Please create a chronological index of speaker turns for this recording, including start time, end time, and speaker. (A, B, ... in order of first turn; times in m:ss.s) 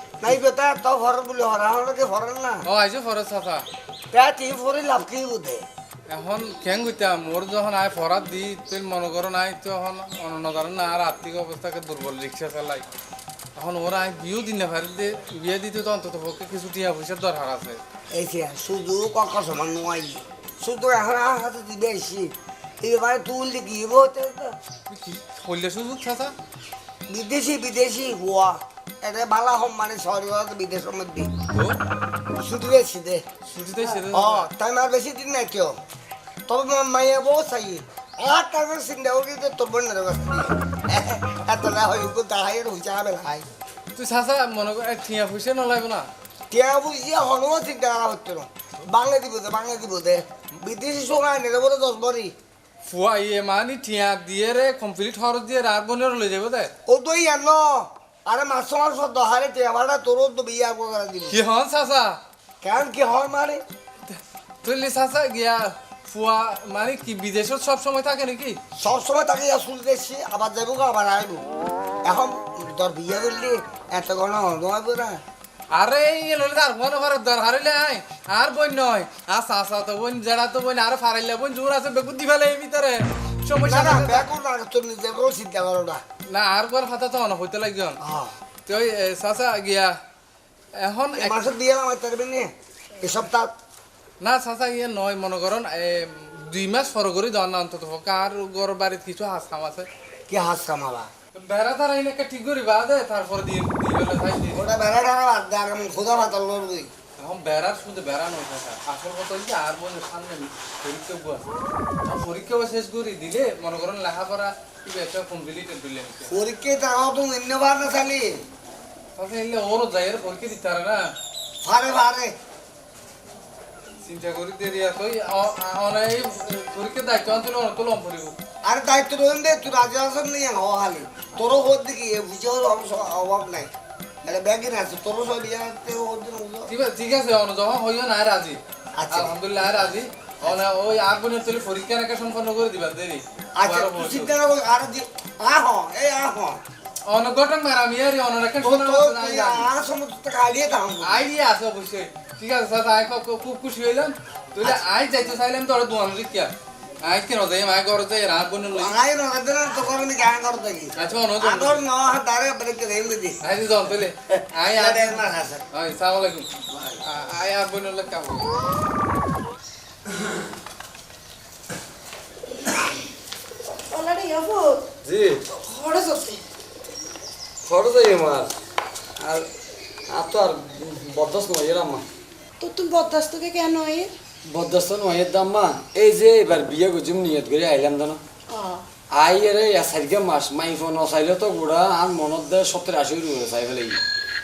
0:00.2-0:02.6 A
0:02.6-0:03.7 B
0:04.1-0:05.6 A
0:06.1-0:12.9 B
0:13.6-0:17.8 B
0:18.1-0:24.6 A
0:24.9-0:26.3 B
0:27.1-0:31.3 A
0:31.5-0:31.8 B
0:32.4-0:33.2 A
0:33.5-0:34.5 B
0:34.0-0:35.8 A
0:36.5-0:43.5 A
0:44.0-0:46.1 B
0:46.5-0:52.3 A
0:52.9-0:56.7 B
0:56.9-1:01.4 A
1:01.3-1:02.2 B
1:02.6-1:03.6 A
1:04.6-1:08.6 B
1:08.8-1:11.4 A
1:12.0-1:15.2 A
1:15.7-1:24.3 B
1:23.6-1:26.0 A
1:26.3-1:28.0 B
1:28.0-1:28.4 A
1:28.7-1:30.0 B
1:30.8-1:31.4 B
1:31.2-1:33.5 A
1:34.2-1:39.9 B
1:40.3-1:41.1 A
1:41.3-1:44.6 B
1:44.5-1:46.9 A
1:47.2-1:51.4 B
1:52.1-1:56.4 B
1:56.3-1:58.4 A
1:59.2-2:01.0 B
2:01.6-2:02.3 A
2:04.0-2:08.4 B
2:08.6-2:13.7 A
2:14.2-2:16.7 A
2:16.7-2:18.6 B
2:19.0-2:19.3 A
2:19.1-2:24.4 B
2:23.6-2:26.6 A
2:27.1-2:29.7 B
2:28.6-2:31.2 A
2:31.0-2:36.5 B
2:37.0-2:39.0 B
2:38.7-2:43.4 A
2:41.0-2:41.8 B
2:43.4-2:45.2 B
2:44.4-2:45.6 A
2:45.7-2:46.5 B
2:46.7-2:47.0 A
2:47.0-2:48.5 B
2:53.9-2:54.8 C
2:55.0-2:55.4 D
2:55.5-2:56.4 C
2:57.6-2:58.5 D
2:59.2-2:59.5 D
3:00.1-3:02.1 D
3:02.6-3:04.1 C
3:04.5-3:08.2 D
3:08.5-3:08.8 C
3:09.2-3:14.0 D